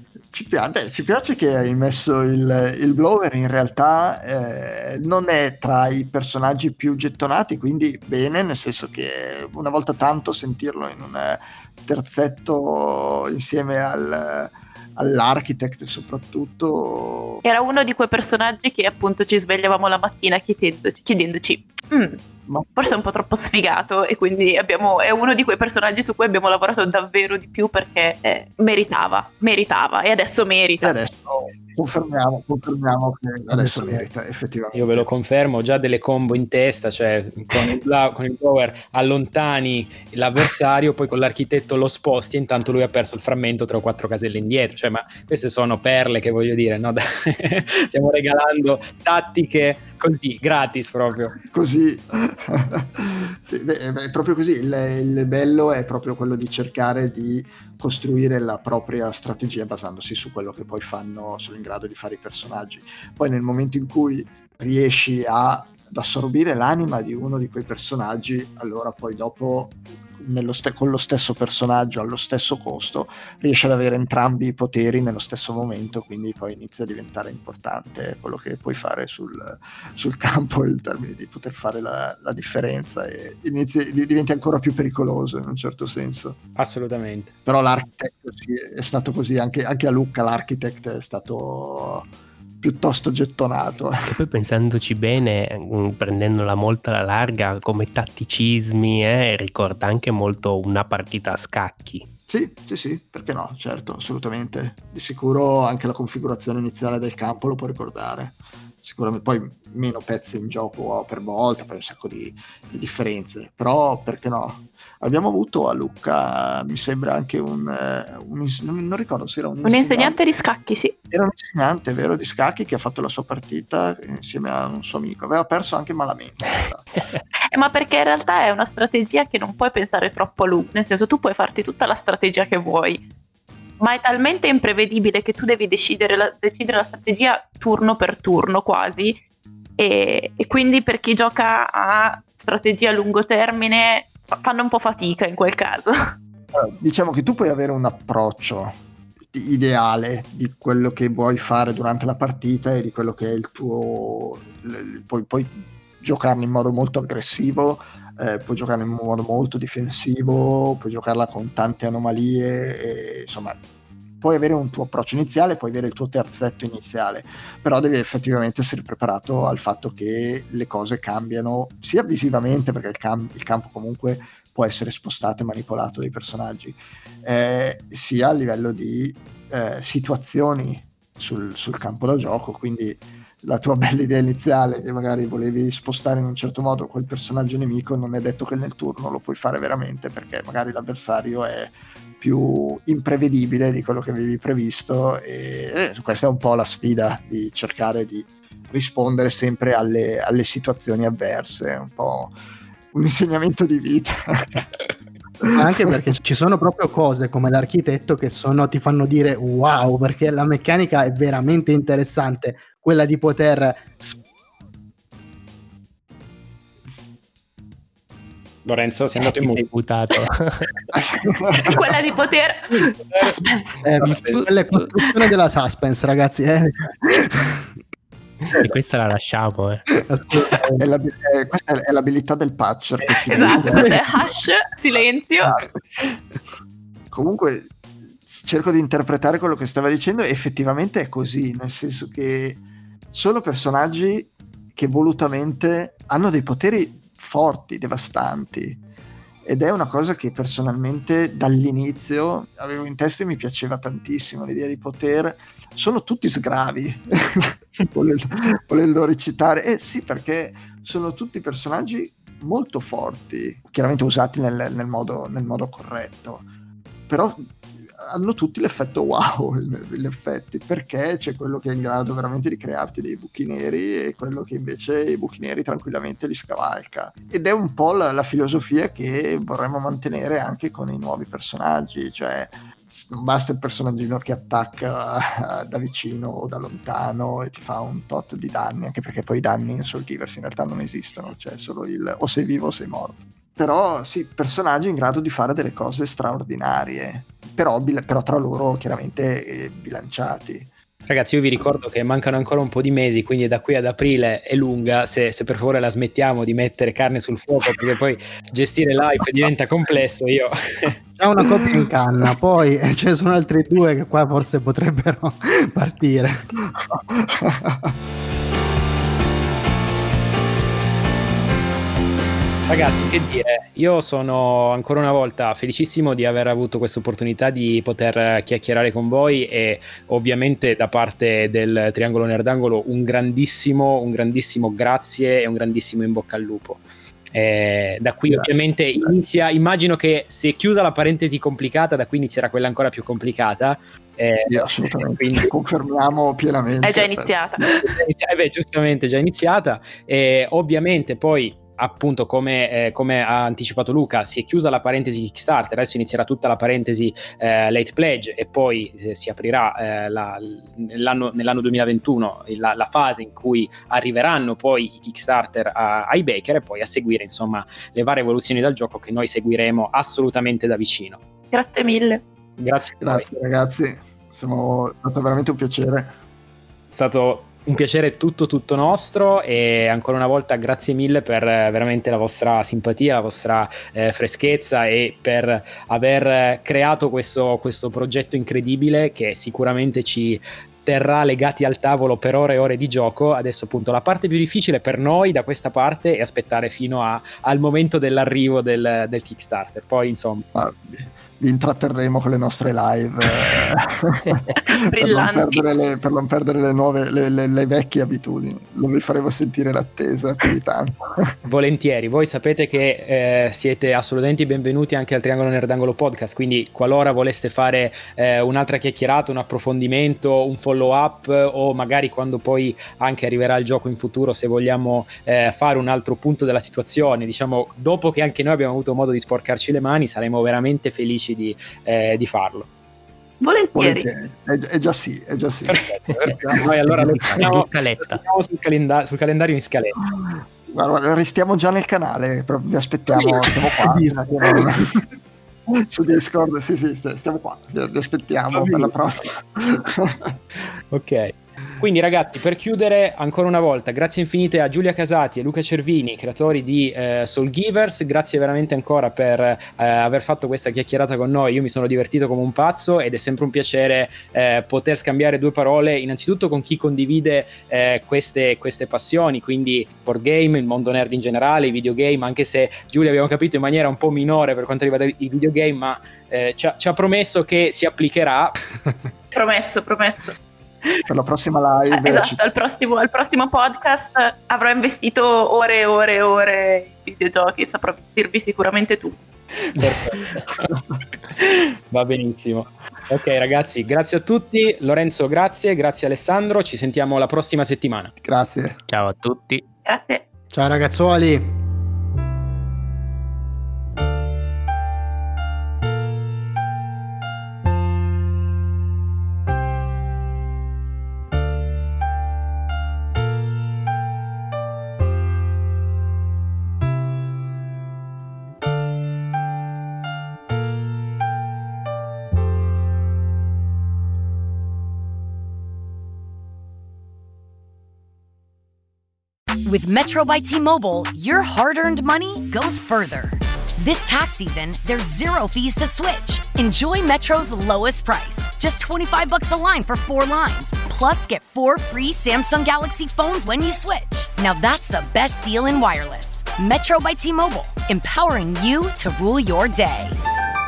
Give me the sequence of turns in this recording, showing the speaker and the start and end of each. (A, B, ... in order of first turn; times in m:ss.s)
0:00.3-0:17.4 A
0:17.4-0:22.2 B
0:22.5-0:23.0 A
0:22.8-0:31.0 B
0:30.8-0:35.1 A
0:33.5-0:34.0 C
0:34.7-0:51.4 D
0:51.4-1:26.4 A
1:26.6-1:27.3 D
1:27.5-1:32.1 A
1:32.6-1:34.1 A
1:34.1-1:42.0 E
1:42.3-2:00.2 A
1:59.6-2:01.0 B
2:01.1-2:07.0 A
2:07.5-2:13.0 B
2:13.8-2:19.2 B
2:19.8-2:26.1 B
2:26.5-2:28.8 A
2:29.3-2:43.6 A
2:44.2-3:22.3 A
3:22.9-3:24.7 A
3:25.4-3:25.9 A
3:25.5-3:34.2 C
3:38.6-3:39.6 D
3:39.2-3:40.7 E
3:41.0-3:41.8 A
3:41.6-3:43.9 B
3:43.8-3:47.7 C
3:44.1-3:44.9 E
3:48.5-3:50.0 E
3:50.1-3:50.8 C
3:50.8-3:54.0 A
3:53.3-3:55.6 B
3:57.1-3:57.7 A
3:58.3-4:08.8 A
4:09.4-4:26.5 A
4:27.1-5:00.7 A
5:01.0-5:11.0 D
5:11.2-5:16.5 C
5:16.7-5:17.9 A
5:22.7-5:45.5 D
5:38.3-5:39.1 A
5:44.4-5:47.3 A
5:46.8-5:47.9 B
5:47.6-6:11.2 D
6:11.5-6:12.2 B
6:12.6-6:13.3 D
6:13.0-6:16.1 A
6:16.9-6:40.4 D
6:40.6-6:51.4 A
6:44.7-6:45.6 B
6:51.4-7:12.7 D
7:13.4-7:14.1 B
7:13.8-7:15.8 A
7:15.7-7:20.0 D
7:16.1-7:18.2 E
7:16.4-7:16.7 A
7:20.1-7:24.9 A
7:23.1-7:23.5 D
7:23.8-7:24.3 C
7:25.8-7:30.4 A
7:28.5-7:28.9 D
7:30.9-7:58.6 D
7:59.3-8:00.4 B
8:01.1-8:02.4 A
8:01.9-8:09.2 B
8:09.8-8:10.6 D
8:11.4-8:18.1 D
8:18.2-8:18.8 A
8:18.9-8:19.6 E
8:19.9-8:20.2 B
8:20.5-8:21.6 C
8:49.6-9:10.2 F